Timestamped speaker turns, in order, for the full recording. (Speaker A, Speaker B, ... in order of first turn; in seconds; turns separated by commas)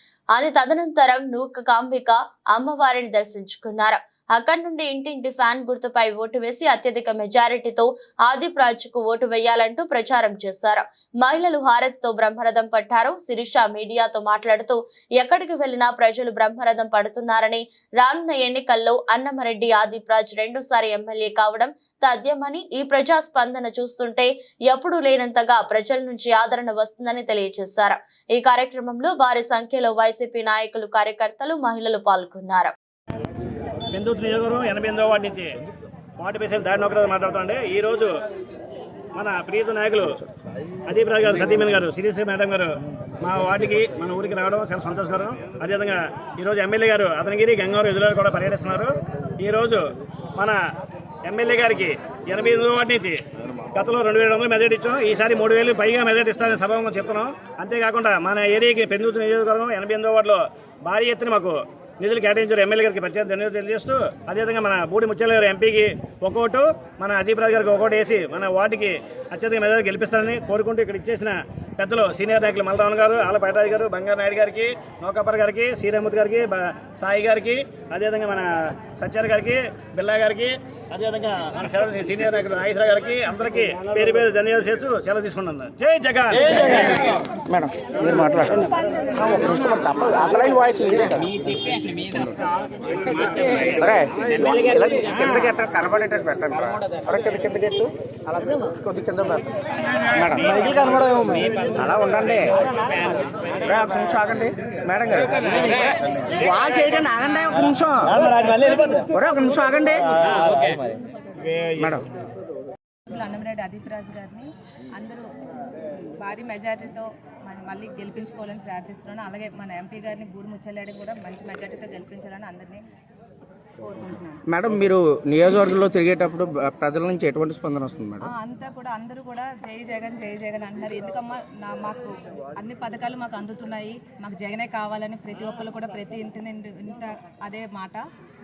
Speaker A: 0.3-32.7, Speaker B: 33.9-35.5, Speaker B: 36.2-38.1, Speaker B: 39.1-40.2, Speaker B: 40.9-49.8, Speaker B: 51.2-53.2, Speaker B: 53.7-86.7, Speaker C: 87.5-99.6, Speaker C: 100.1-102.5, Speaker C: 103.5-110.8, Speaker C: 111.6-112.0, Speaker D: 113.1-115.3, Speaker D: 116.2-122.8, Speaker D: 123.8-124.4, Speaker C: 124.5-128.3, Speaker D: 128.2-138.0